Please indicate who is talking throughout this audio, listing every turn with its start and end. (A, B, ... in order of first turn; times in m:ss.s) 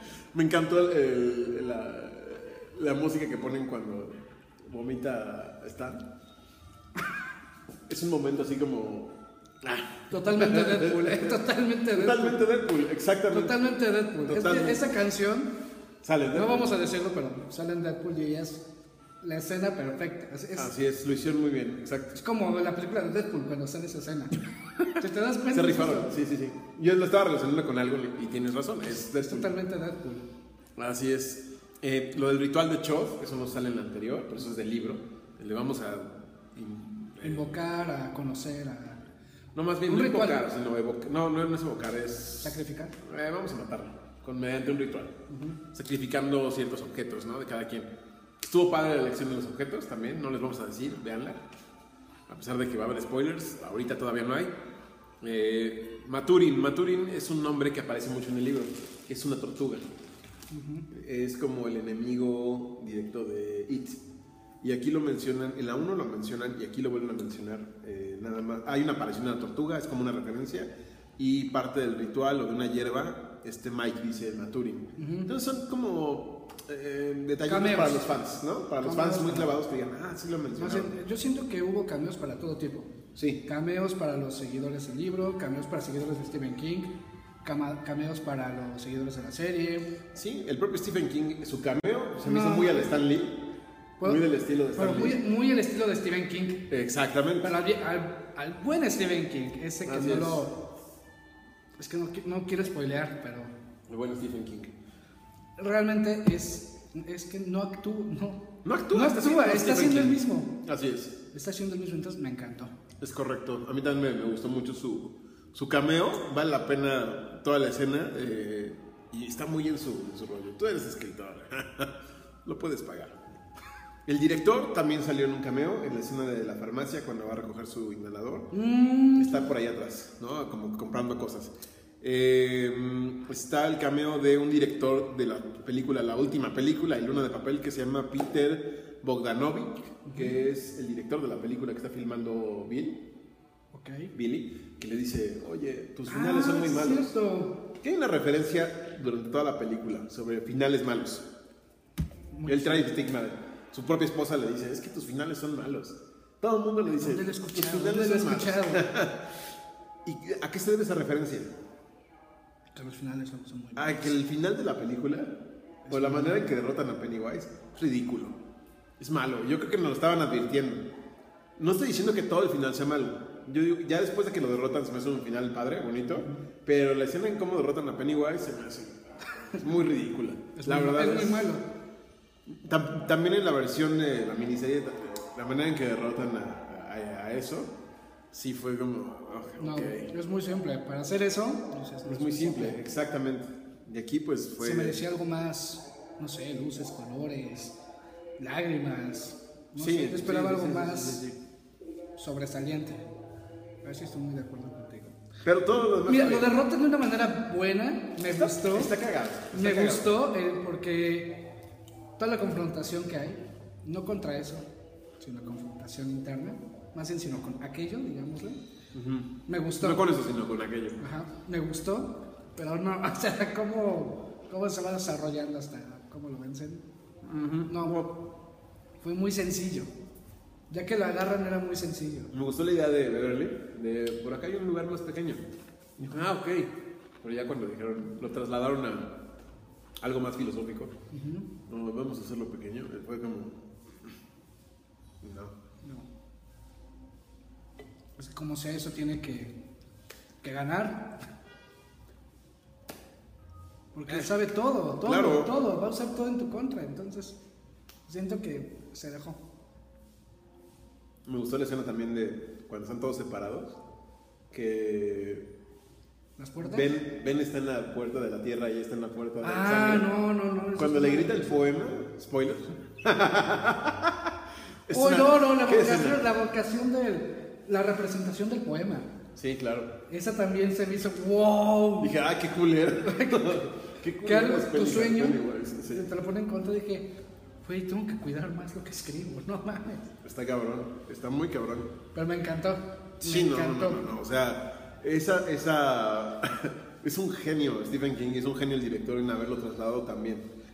0:00.3-0:06.1 A
0:07.9-0:11.4 A
0:10.1-0:12.4 B
0:11.9-0:13.6 A
0:13.3-0:15.5 B
0:14.2-0:14.8 A
0:16.0-0:16.7 A
0:16.3-0:18.6 B
0:19.2-0:20.7 B
0:20.6-0:22.1 A
0:22.1-0:24.4 B
0:24.9-0:26.1 B
0:25.5-0:29.5 A
0:29.0-0:30.2 B
0:30.8-0:37.5 A
0:37.2-0:39.0 B
0:39.5-0:45.1 A
0:39.9-0:40.4 B
0:42.4-0:43.0 B
0:45.3-0:45.6 B
0:45.7-0:47.9 A
0:48.4-0:51.4 A
0:52.3-0:54.6 A
0:55.2-0:59.8 A
1:00.5-1:00.9 B
1:00.9-1:04.0 A
1:04.6-1:20.9 A
1:15.0-1:15.3 B
1:17.4-1:18.1 B
1:18.8-1:19.6 B
1:20.6-1:22.9 B
1:23.1-1:23.4 A
1:23.4-1:26.9 B
1:27.4-1:29.9 B
1:30.1-1:33.4 A
1:32.2-1:32.9 B
1:34.0-1:35.2 A
1:34.7-1:36.6 B
1:36.7-1:37.5 A
1:37.4-1:40.6 B
1:39.8-1:40.4 A
1:41.8-1:43.5 B
1:43.9-1:44.7 A
1:45.6-1:50.6 B
1:48.6-1:51.1 A
1:51.3-1:52.7 B
1:53.0-2:01.9 A
2:02.4-2:03.2 A
2:04.1-2:08.5 A
2:08.5-2:09.5 B
2:09.1-2:23.0 A
2:20.0-2:20.4 B
2:23.7-2:24.1 B
2:24.1-2:27.1 A
2:26.1-2:27.6 B
2:27.8-2:31.2 A
2:32.3-2:32.9 B
2:32.4-2:39.3 A
2:37.0-2:38.9 B
2:40.0-2:41.5 A
2:42.7-2:44.1 B
2:43.8-2:45.3 A
2:45.9-2:46.5 B
2:45.9-2:48.4 A
2:49.0-2:50.9 A
2:51.6-3:01.5 A
3:00.6-3:01.6 B
3:02.5-3:07.7 A
3:08.3-3:10.1 A
3:09.6-3:12.8 B
3:12.0-3:15.0 A
3:14.6-3:17.8 B
3:18.4-3:21.2 B
3:19.8-3:21.4 A
3:22.2-3:23.1 B
3:23.8-3:25.2 B
3:25.4-3:26.5 A
3:26.1-3:28.9 B
3:28.3-3:30.1 A
3:29.5-3:31.4 B
3:32.2-3:34.6 B
3:35.2-3:38.6 B
3:38.9-3:39.3 A
3:39.5-3:40.1 B
3:39.8-3:41.0 A
3:41.0-3:46.9 B
3:47.2-3:48.1 A
3:47.7-3:48.2 B
3:49.0-3:49.9 B
3:50.7-3:52.3 B
3:52.3-3:55.4 A
3:56.0-3:59.1 A
4:00.0-4:00.9 A
4:01.1-4:01.5 B
4:01.7-4:04.1 A
4:05.2-4:05.5 A
4:05.8-4:06.1 B
4:08.2-4:09.6 B
4:10.4-4:11.1 B
4:13.9-4:17.4 B
4:14.1-4:14.3 A
4:15.0-4:15.5 A
4:18.1-4:19.4 B
4:21.2-4:23.8 A
4:24.5-4:25.4 A
4:26.4-4:26.9 B
4:26.6-4:30.1 A
4:29.4-4:31.5 B
4:30.8-4:34.3 A
4:34.9-4:36.2 A
4:34.9-4:39.1 B
4:39.4-4:39.9 A
4:40.1-4:42.1 B
4:42.0-4:46.1 A
4:43.0-4:43.7 B
4:44.2-4:50.1 B
4:50.2-4:51.9 A
4:52.1-4:54.1 B
4:53.2-5:00.4 A